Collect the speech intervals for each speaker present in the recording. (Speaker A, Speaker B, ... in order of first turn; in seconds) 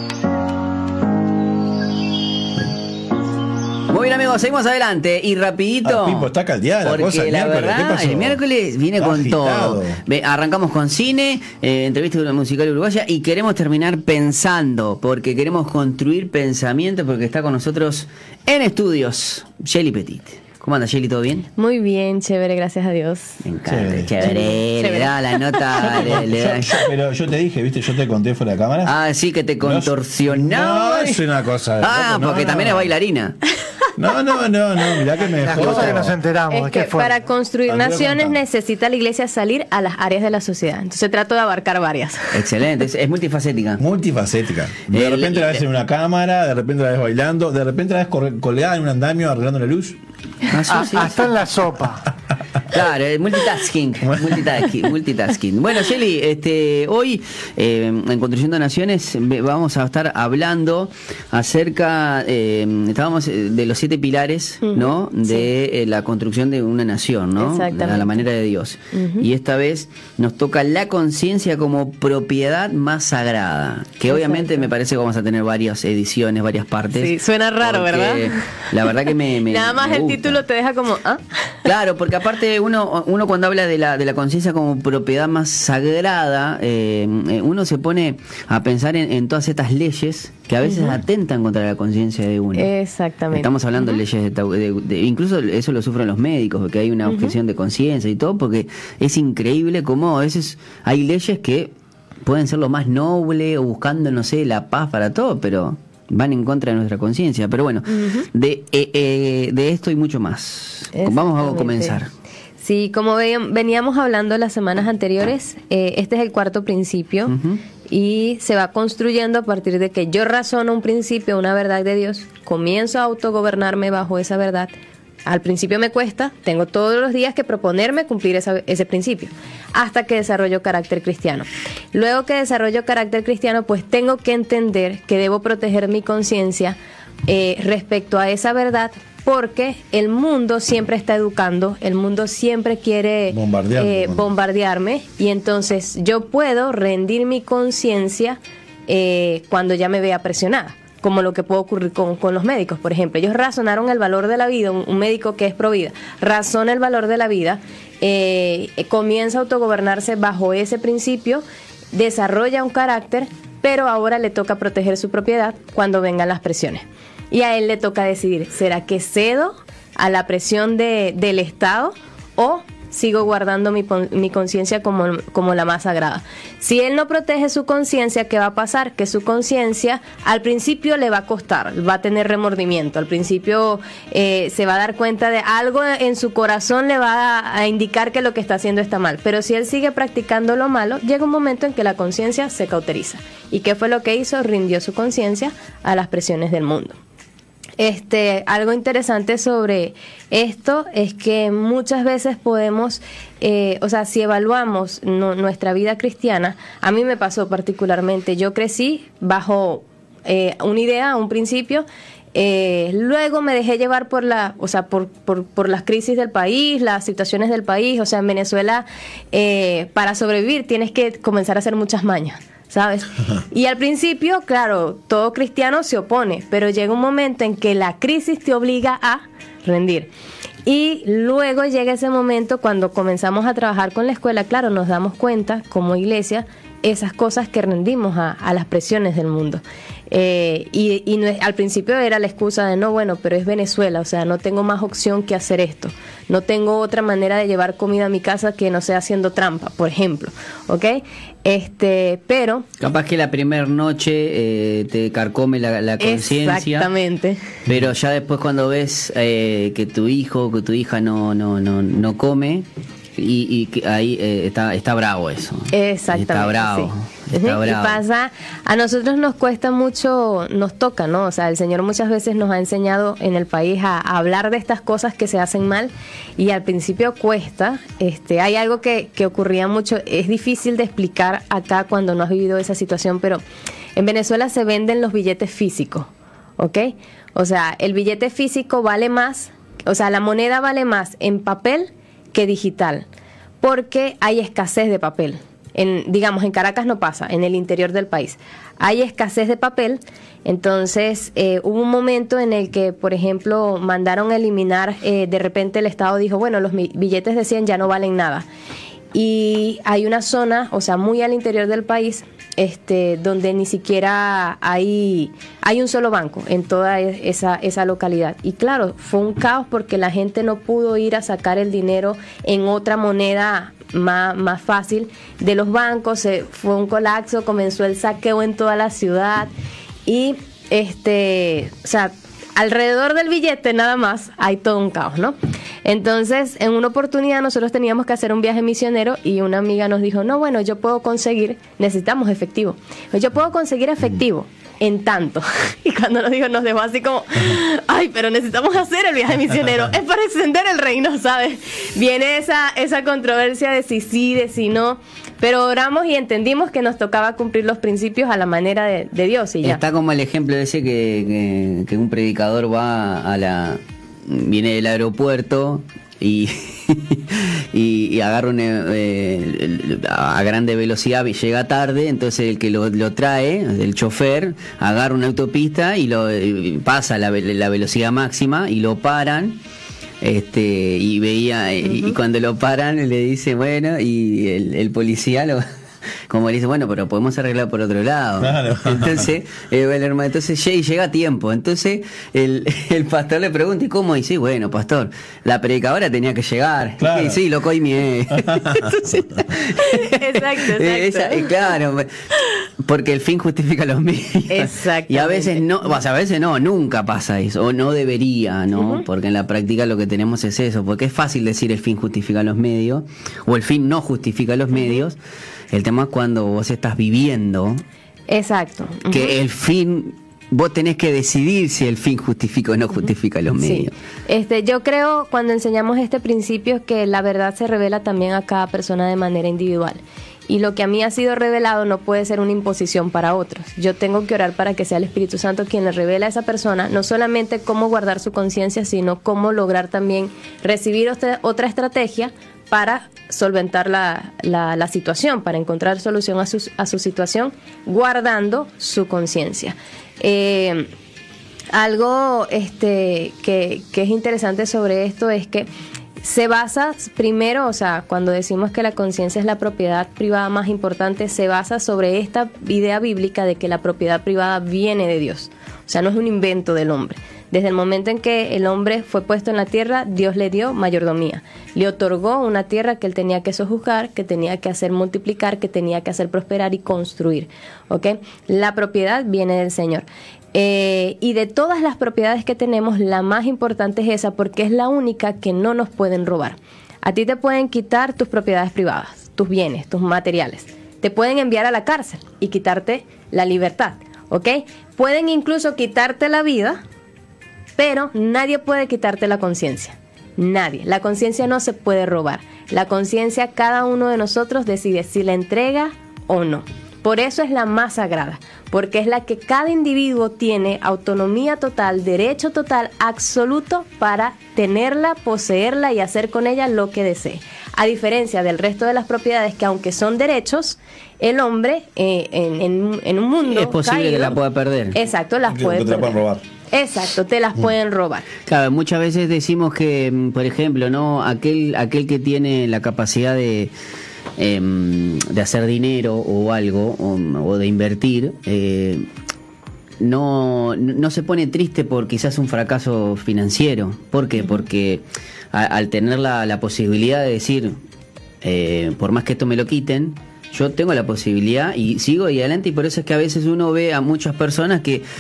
Speaker A: 3.9-6.3, 6.8-21.5, 23.4-26.8, 28.8-31.3, 31.8-33.4, 42.3-43.8, 44.9-45.6, 50.5-51.3, 52.7-80.4, 81.6-92.7, 93.3-112.1, 117.3-117.6, 252.8-256.9, 257.7-268.0, 359.6-379.6, 380.2-385.6, 386.3-402.1, 402.8-415.2, 415.7-417.8, 419.1-423.9, 523.5-525.0, 528.5-533.7, 534.4-539.0, 540.0-547.8, 548.4-555.0
Speaker B: 5.8-8.4, 9.0-10.0, 23.6-24.4, 25.8-28.9, 29.6-32.9, 34.0-36.2, 37.7-38.4, 43.8-50.0, 54.1-54.4, 143.3-144.3, 388.4-389.3, 397.0-397.4, 398.3-398.9, 525.5-526.4
Speaker C: 21.6-23.4, 24.2-26.2, 35.6-36.0, 36.5-42.5, 64.6-65.5, 67.4-68.2, 68.9-69.3, 74.1-74.7, 76.9-81.7, 90.6-91.0, 92.5-94.0, 97.0-97.3, 108.0-108.2, 110.9-112.0, 112.6-117.3, 117.9-124.7, 125.2-197.0, 197.8-230.1, 230.6-252.7, 256.0-257.4, 265.7-283.4, 283.9-293.1, 293.6-308.4, 309.1-329.5, 330.1-359.8, 381.8-382.1, 399.8-401.6, 404.5-405.9, 408.7-409.0, 414.8-415.0, 418.3-419.4, 423.5-450.9, 451.7-455.7, 456.2-496.8, 497.8-526.2, 526.7-528.3
Speaker D: 35.3-37.2, 50.7-52.1